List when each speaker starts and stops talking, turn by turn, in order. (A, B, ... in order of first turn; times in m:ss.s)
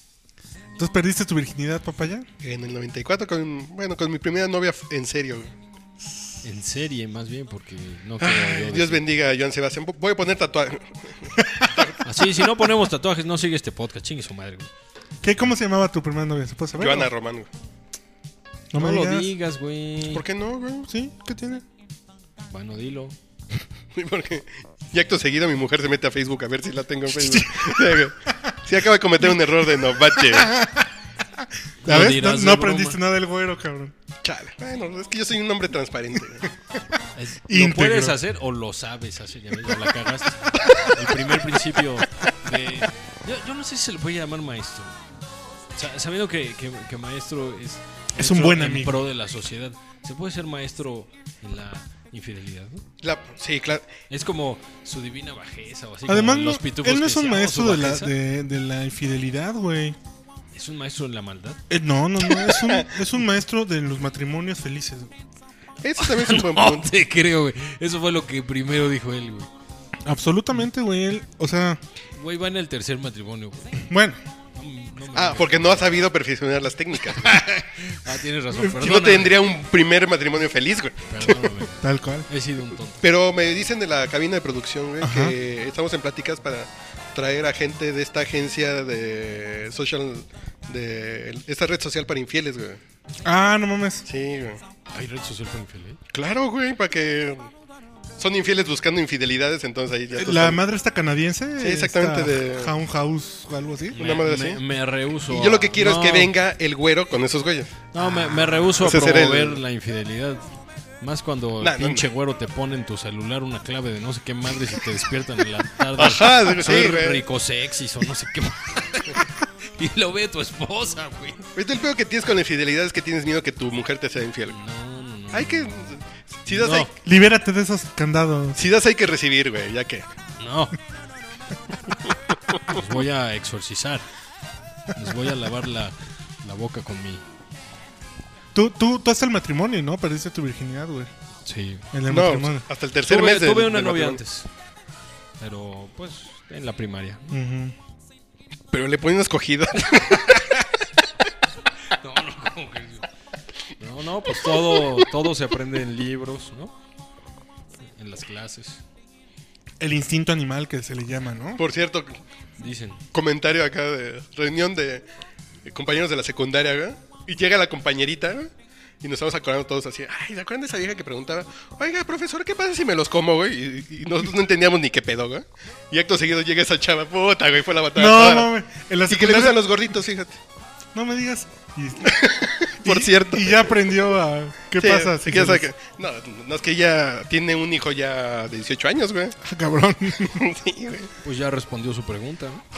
0:00.8-0:02.3 A
0:02.4-0:05.5 B
0:06.4-0:09.0 C
0:08.2-0:12.0 B
0:12.0-0:14.7 C
0:15.2-0:17.1 A
0:16.8-0:17.5 B
0:18.7-0:19.3 A
0:18.7-0:20.2 C
0:20.1-0:20.9 B
0:20.9-0:21.6 A
0:22.5-0:23.2 C
0:23.9-0:30.5 B
0:27.1-0:28.5 A
0:29.8-0:33.9 A
0:31.8-0:33.0 C
0:34.2-0:36.5 B
0:37.1-0:45.0 C
0:37.5-0:38.2 A
0:45.7-0:52.8 C
0:48.2-0:49.0 A
0:53.0-0:53.9 B
0:54.1-0:58.1 C
0:56.1-1:00.0 A
1:00.5-1:01.6 C
1:01.7-1:05.1 A
1:02.5-1:02.9 B
1:05.8-1:06.9 B
1:06.0-1:09.5 C
1:10.0-1:11.8 A
1:12.1-1:13.8 C
1:13.8-1:14.2 A
1:14.5-1:16.0 C
1:15.1-1:17.4 B
1:17.1-1:19.4 C
1:18.6-1:21.4 B
1:21.1-1:23.0 C
1:21.8-1:22.3 A
1:23.0-1:32.8 B
1:25.0-1:25.3 A
1:33.2-1:34.1 A
1:34.1-1:34.6 B
1:34.9-1:36.0 C
1:36.1-1:37.5 B
1:38.2-1:40.6 B
1:40.1-1:44.0 A
1:41.6-1:42.7 B
1:43.9-1:46.3 C
1:44.0-1:44.6 B
1:45.3-1:49.6 B
1:47.9-1:50.5 C
1:51.0-2:01.5 C
1:51.6-1:52.0 B
1:56.0-1:57.2 B
2:01.6-2:04.6 B
2:04.5-2:06.0 C
2:05.3-2:06.9 B
2:06.5-2:06.9 C
2:07.0-2:08.6 A
2:08.6-2:10.1 B
2:10.4-2:10.8 C
2:12.7-2:14.1 C
2:14.9-2:17.2 C
2:18.5-2:21.1 A
2:21.4-2:21.9 C
2:21.9-2:22.7 A
2:22.1-2:24.2 B
2:23.1-2:24.5 C
2:25.4-2:27.3 C
2:27.3-2:27.7 A
2:28.7-2:30.6 B
2:31.9-2:33.0 C
2:33.8-2:36.7 C
2:37.9-2:38.8 C
2:39.8-2:41.6 A
2:41.6-2:42.2 B
2:42.6-2:43.0 C
2:43.1-2:45.0 B
2:45.6-2:48.5 B
2:49.0-2:58.5 B
2:57.9-2:59.7 A
2:59.1-3:00.4 B
3:00.9-3:05.7 A
3:02.0-3:04.0 B
3:04.8-3:09.4 B
3:09.4-3:10.4 A
3:10.2-3:11.1 B
3:11.2-3:12.6 C